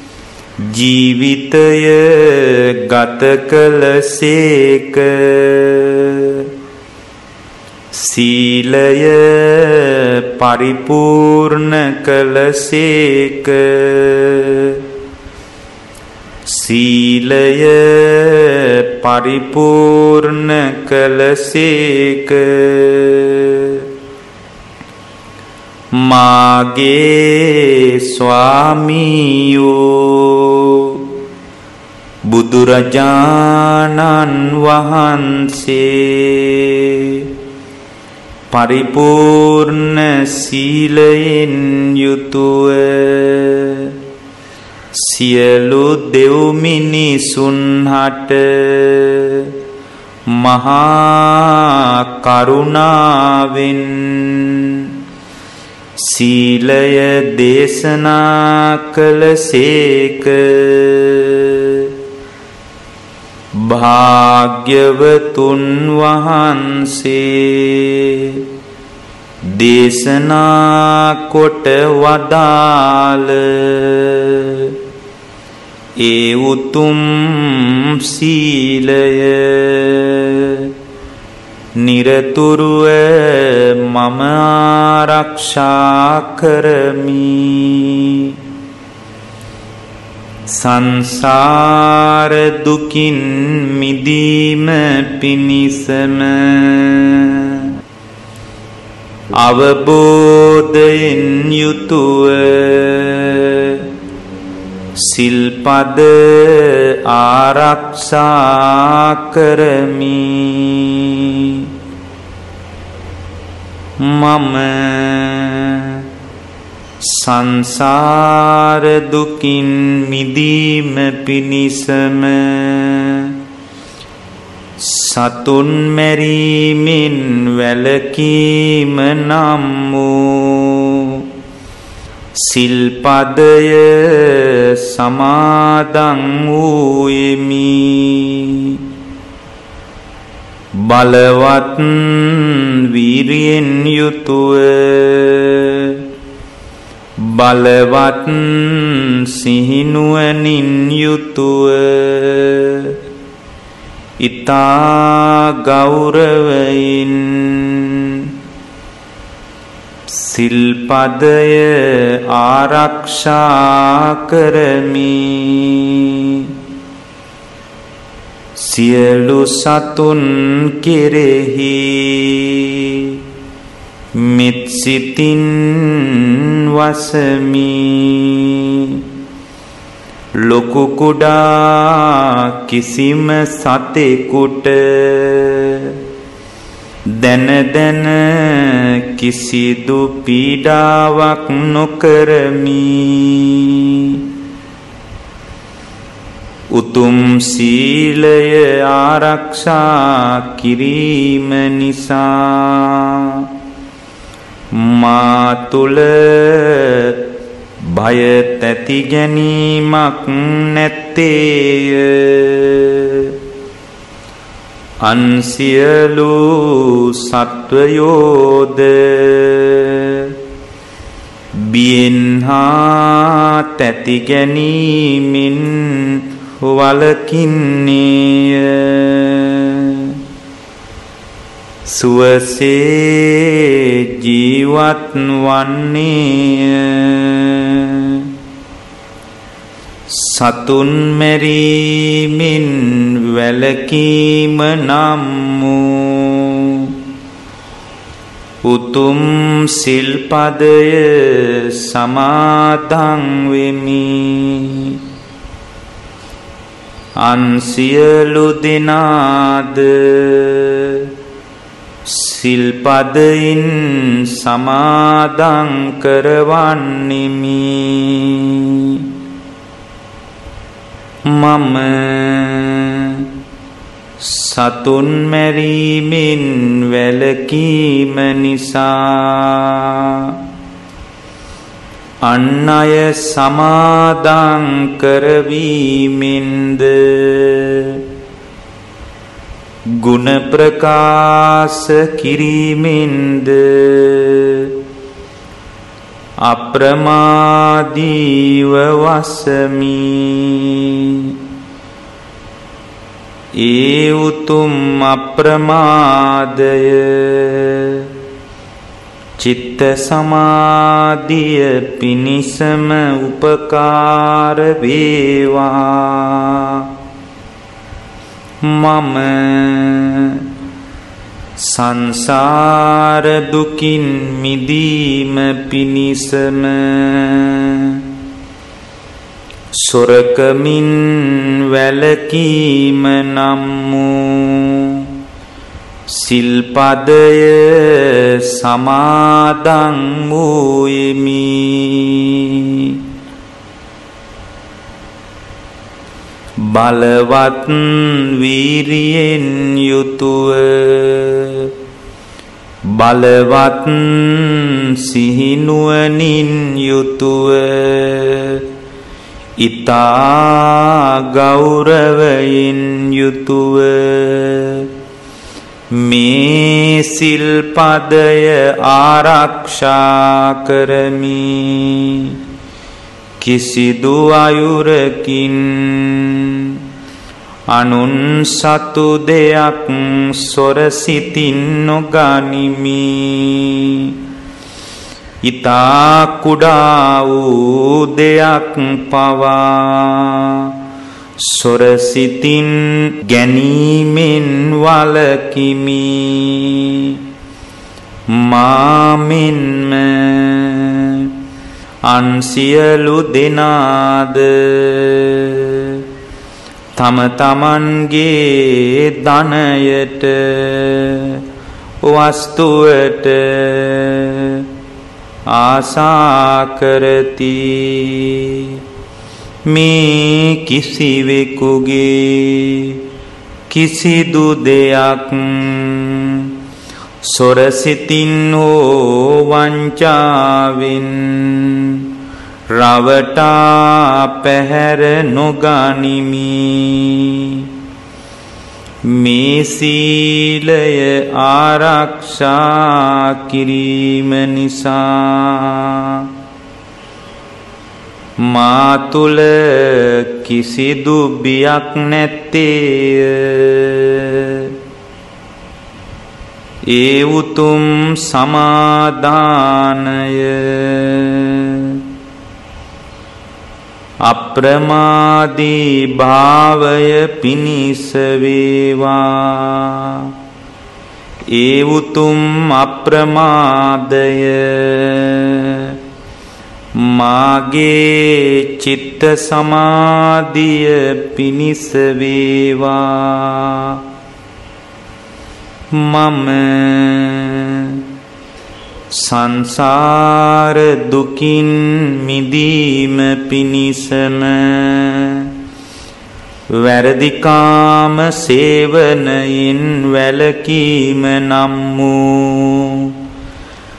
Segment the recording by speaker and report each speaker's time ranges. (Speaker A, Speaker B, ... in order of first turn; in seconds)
Speaker A: 0.6-6.5, 7.9-14.8, 16.5-23.9, 26.0-31.1, 32.3-37.3, 38.5-44.0, 45.0-49.5, 50.3-54.9, 56.0-61.9, 63.6-68.5, 69.5-74.8, 76.0-80.7, 81.8-88.4, 90.5-97.7, 99.4-103.9, 105.0-111.7, 114.0-116.1, 117.0-123.4, 124.8-131.2, 132.4-138.8, 140.8-146.0, 147.2-153.0, 154.2-158.3, 160.1-166.5, 168.6-173.2, 174.2-179.0, 180.4-186.0, 187.1-194.2, 196.7-203.5, 204.7-207.2, 207.8-213.3, 215.0-220.4, 221.6-230.2, 231.9-238.3, 240.1-247.0, 248.6-255.0, 257.2-261.1, 262.1-269.1, 271.3-273.3, 274.2-280.4, 282.2-288.0, 289.9-294.8, 296.4-301.4, 303.6-308.1, 309.4-316.9, 318.6-320.5, 321.6-328.1, 329.8-335.1, 336.1-343.0, 346.6-351.7, 352.9-358.7, 359.6-364.9, 365.9-372.4, 373.4-376.8, 377.7-384.2, 385.4-390.8, 391.4-397.2, 398.3-401.3, 402.1-406.0, 407.0-411.4, 412.0-414.7, 415.5-418.8, 419.7-423.0, 423.7-426.6, 427.2-432.1, 432.7-437.7, 439.1-446.3, 448.4-454.7, 456.9-462.0, 464.2-470.3, 471.5-476.0, 477.0-484.0, 485.9-488.1, 489.1-495.5, 496.7-503.1